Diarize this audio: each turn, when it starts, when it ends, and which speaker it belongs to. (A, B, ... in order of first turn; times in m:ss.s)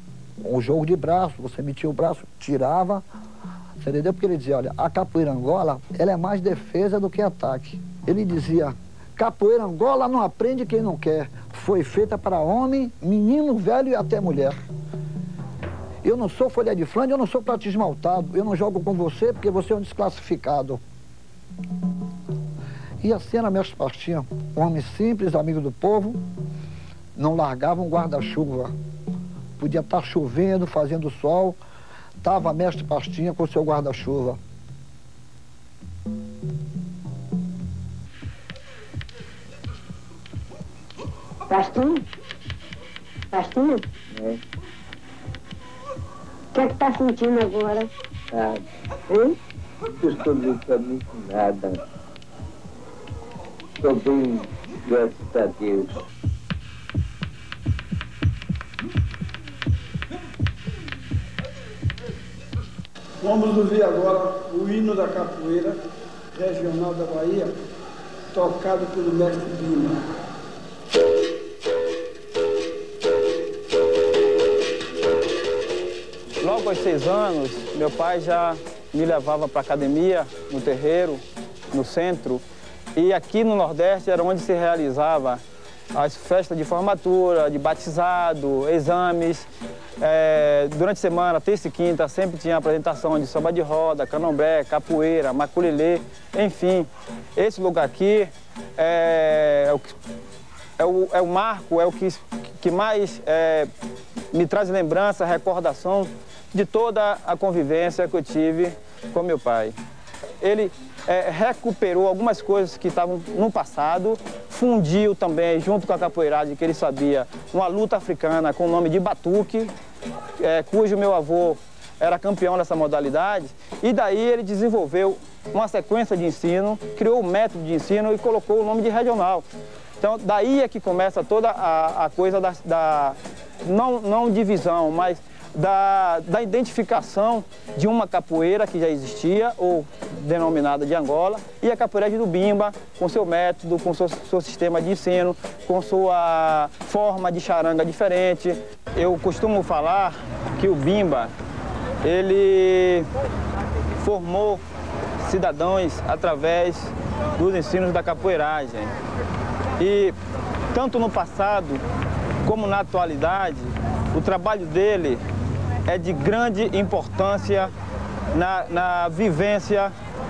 0:00.4-0:03.0 A
0:03.8-0:14.6 A
0:16.0-0:20.8 A
0:23.0-0:26.2 A
0:27.2-0:28.7 A
0:29.6-0:31.6 A
0:32.2-0:34.4 A
0:41.5-0:42.0 B
0:43.3-0:43.8 B
0:44.1-0:44.4 C
0:46.5-0:47.9 B
0:48.3-0:49.3 C
0:50.0-0:51.8 C
0:53.8-0:55.9 C
1:03.2-1:05.8 D
1:06.3-1:07.5 D
1:08.3-1:10.0 D
1:16.4-1:22.4 E
1:23.0-1:25.4 E
1:25.9-1:29.5 E
1:30.0-1:39.9 E
1:40.8-1:43.7 E
1:44.3-1:49.8 E
1:50.4-1:59.7 E
2:00.4-2:09.4 E
2:10.0-2:31.3 E
2:32.0-2:33.0 E
2:34.0-2:34.6 E
2:35.2-2:38.9 E
2:39.8-2:40.1 E
2:40.7-2:41.8 E
2:42.4-2:45.2 E
2:45.9-2:47.7 E
2:48.3-2:49.9 E